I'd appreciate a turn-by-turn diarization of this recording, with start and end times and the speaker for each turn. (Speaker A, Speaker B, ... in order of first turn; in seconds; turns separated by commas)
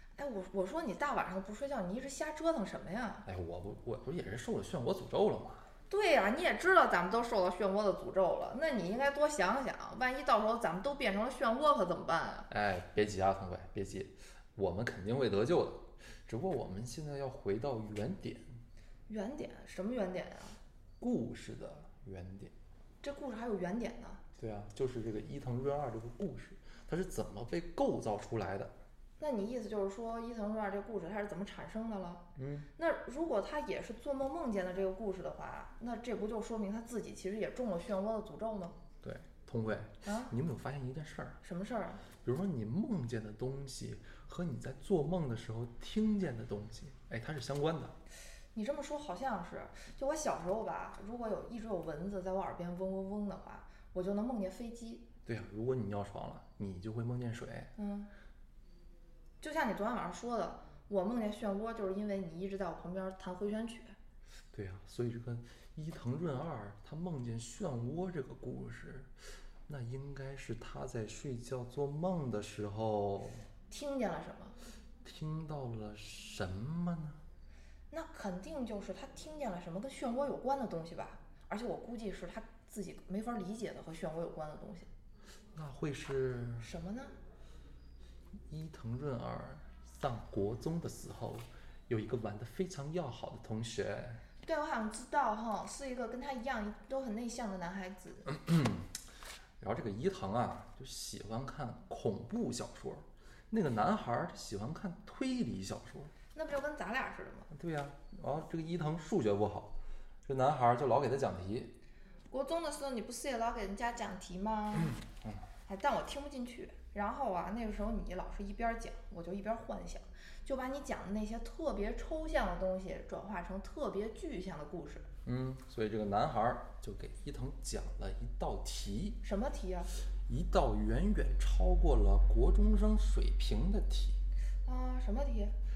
Speaker A: 0.2-3.2, Speaker B: 3.2-5.7, Speaker A: 5.9-12.5, Speaker B: 12.5-18.5, Speaker A: 19.1-20.6, Speaker B: 21.0-22.5, Speaker A: 23.0-24.2, Speaker B: 24.4-28.7, Speaker A: 29.2-32.2, Speaker B: 32.4-32.7, Speaker A: 32.8-38.8, Speaker B: 39.0-41.4, Speaker A: 40.0-40.3, Speaker A: 41.4-42.1, Speaker B: 42.2-48.0, Speaker A: 48.5-55.0, Speaker B: 55.3-57.7, Speaker A: 57.8-58.1, Speaker A: 59.4-64.0, Speaker B: 64.5-69.1, Speaker B: 69.7-73.5, Speaker A: 73.7-74.6, Speaker B: 75.0-77.2, Speaker A: 77.9-84.9, Speaker B: 85.5-86.7, Speaker A: 86.6-87.1, Speaker B: 88.5-94.2, Speaker A: 94.4-98.3, Speaker B: 98.3-98.9, Speaker B: 99.6-106.1, Speaker A: 106.3-107.5, Speaker B: 107.5-109.7, Speaker B: 110.2-111.7, Speaker A: 112.3-115.0, Speaker B: 114.8-115.4, Speaker A: 115.7-125.1, Speaker B: 125.2-129.2, Speaker A: 129.2-129.9, Speaker B: 130.3-134.2, Speaker A: 134.7-135.6